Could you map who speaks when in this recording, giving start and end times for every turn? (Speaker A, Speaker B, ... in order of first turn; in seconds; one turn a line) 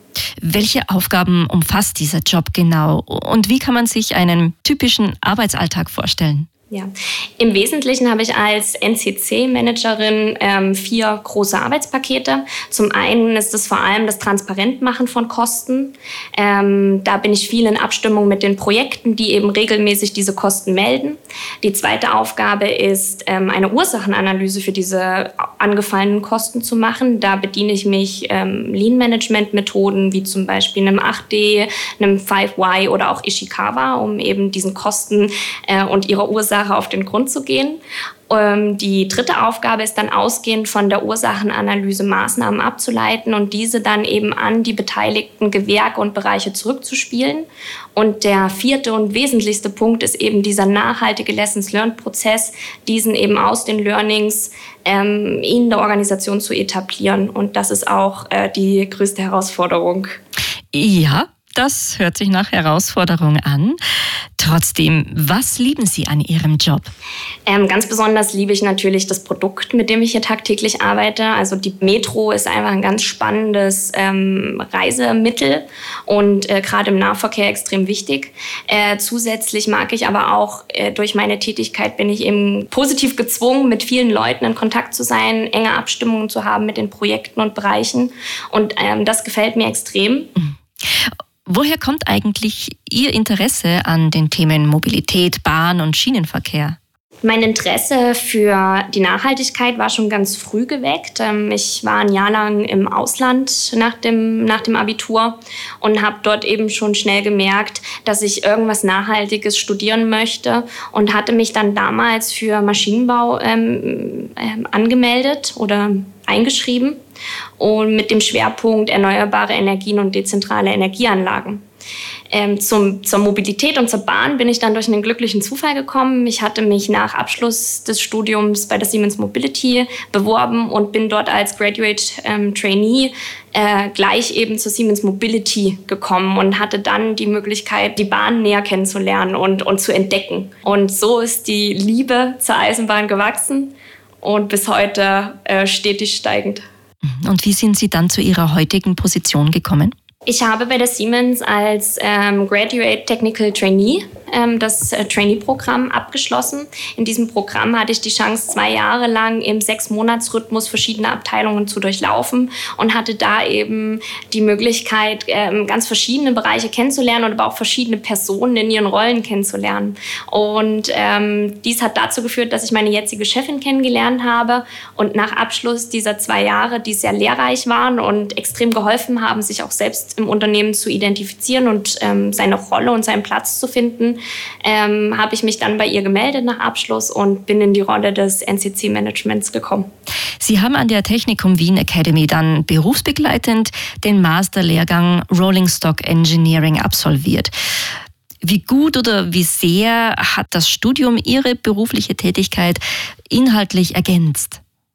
Speaker A: 0.4-6.5
Speaker B: 6.7-60.2
Speaker A: 60.7-63.8
Speaker A: 64.4-66.9
Speaker B: 67.5-90.3
Speaker A: 91.1-96.8
Speaker B: 97.2-117.0
Speaker B: 117.6-121.6
Speaker B: 122.3-146.6
Speaker A: 147.1-149.9
Speaker B: 150.3-189.9
Speaker A: 190.4-197.5
Speaker A: 198.4-204.6